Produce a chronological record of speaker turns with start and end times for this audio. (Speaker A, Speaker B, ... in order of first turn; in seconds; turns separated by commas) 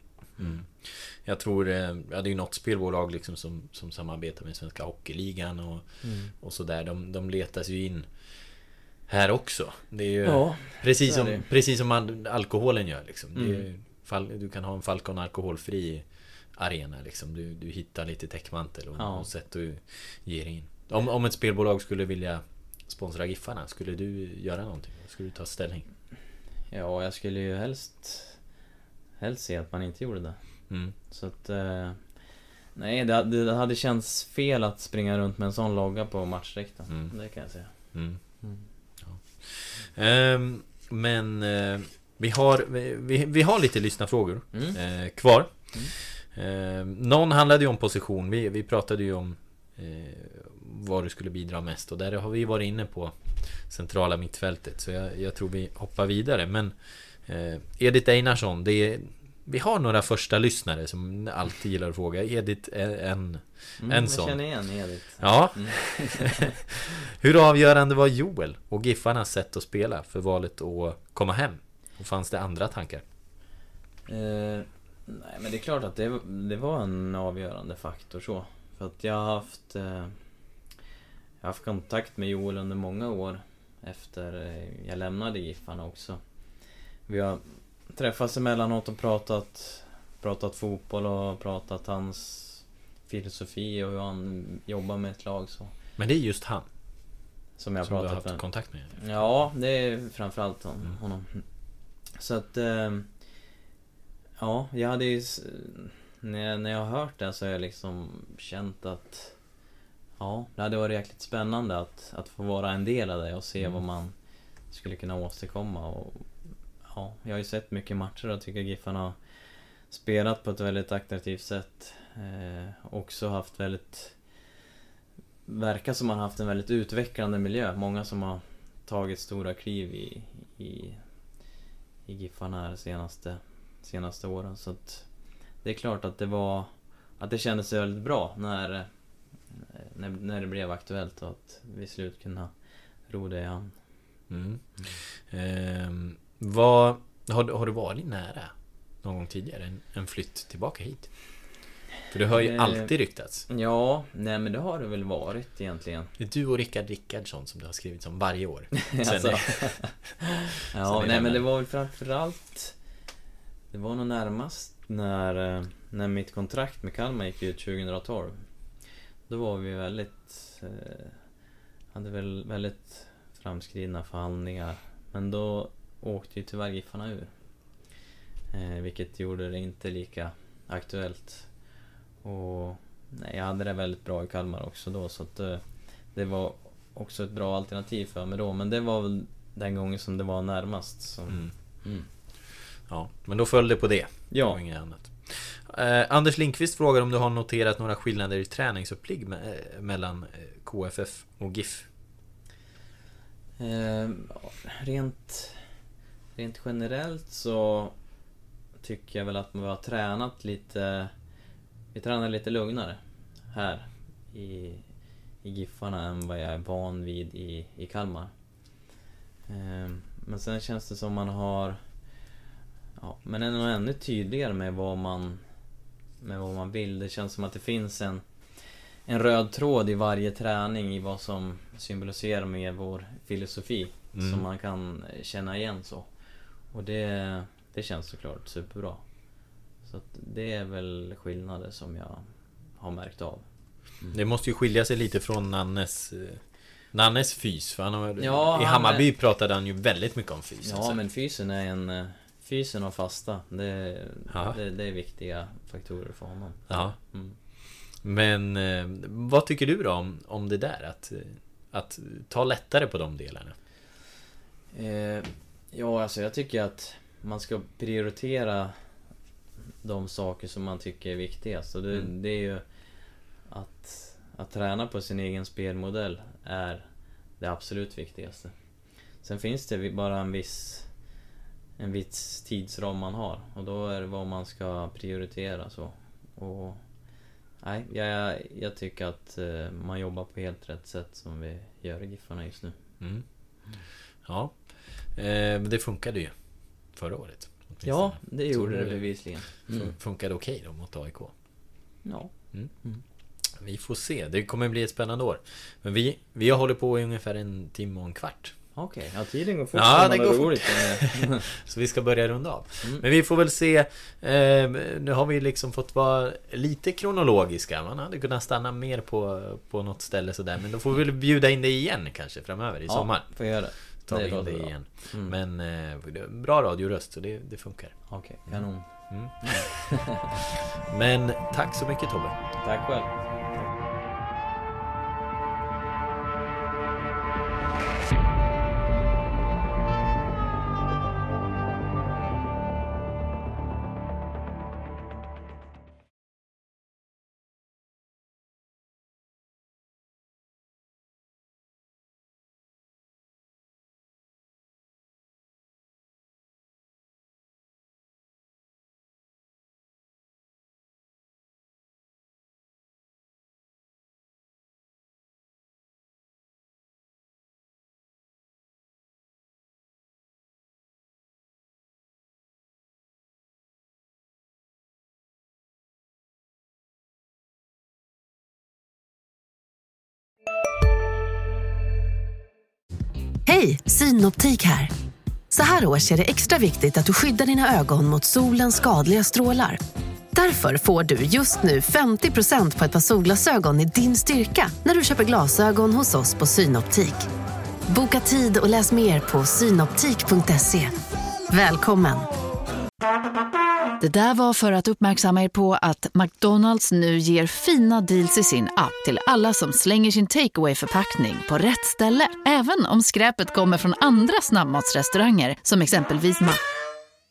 Speaker A: 0.3-0.6, Speaker B: 0.4-25.9, Speaker A: 6.0-6.3, Speaker A: 10.2-11.4, Speaker A: 13.3-13.7, Speaker A: 19.0-19.3, Speaker A: 26.7-28.4, Speaker A: 29.2-38.6, Speaker B: 36.9-38.4, Speaker B: 39.0-73.0, Speaker A: 44.5-44.8, Speaker A: 63.8-66.4, Speaker A: 74.1-80.2, Speaker A: 81.4-86.2, Speaker A: 87.1-95.7, Speaker B: 96.0-96.7, Speaker A: 97.6-101.5, Speaker B: 97.8-99.0, Speaker A: 102.1-103.1, Speaker A: 104.4-109.3, Speaker A: 110.2-114.1, Speaker A: 114.7-116.3, Speaker A: 116.9-119.2, Speaker A: 119.9-124.2, Speaker A: 125.5-131.0, Speaker A: 132.1-135.1, Speaker A: 135.6-138.9, Speaker A: 139.5-142.5, Speaker A: 143.0-143.8, Speaker B: 144.3-151.5, Speaker B: 152.1-153.5, Speaker A: 152.3-156.1, Speaker B: 156.2-160.1, Speaker A: 158.9-162.8, Speaker B: 160.8-161.4, Speaker A: 163.7-168.4, Speaker A: 169.3-171.2, Speaker A: 171.9-177.3, Speaker A: 178.5-181.5, Speaker A: 182.2-192.1, Speaker B: 191.3-191.5, Speaker B: 192.8-201.9, Speaker A: 194.3-194.6, Speaker A: 203.6-205.6, Speaker A: 206.3-207.9, Speaker A: 208.8-211.1, Speaker A: 211.9-214.8, Speaker A: 215.4-218.3, Speaker A: 219.5-221.8, Speaker A: 223.0-225.4, Speaker A: 226.2-228.2, Speaker A: 229.1-236.1, Speaker B: 234.1-234.4, Speaker A: 236.7-239.0, Speaker A: 239.8-243.4, Speaker B: 244.1-251.0, Speaker A: 248.2-249.1, Speaker A: 250.6-257.4, Speaker B: 254.3-254.6, Speaker B: 256.7-257.0, Speaker B: 257.9-263.5, Speaker A: 264.7-268.8, Speaker A: 269.8-272.6, Speaker A: 273.5-276.9, Speaker A: 277.4-278.5, Speaker A: 279.2-280.9, Speaker A: 281.8-286.8, Speaker A: 287.6-292.8, Speaker B: 293.0-293.2, Speaker B: 293.9-301.3, Speaker A: 297.8-299.9, Speaker A: 302.0-303.0, Speaker B: 303.5-308.6, Speaker A: 308.7-311.4, Speaker B: 309.7-332.3, Speaker A: 322.9-325.3, Speaker A: 328.1-330.3, Speaker A: 332.6-333.7, Speaker C: 383.4-384.9, Speaker C: 385.5-389.8, Speaker C: 390.3-397.3, Speaker C: 397.9-401.0, Speaker C: 401.5-402.3, Speaker D: 404.0-416.6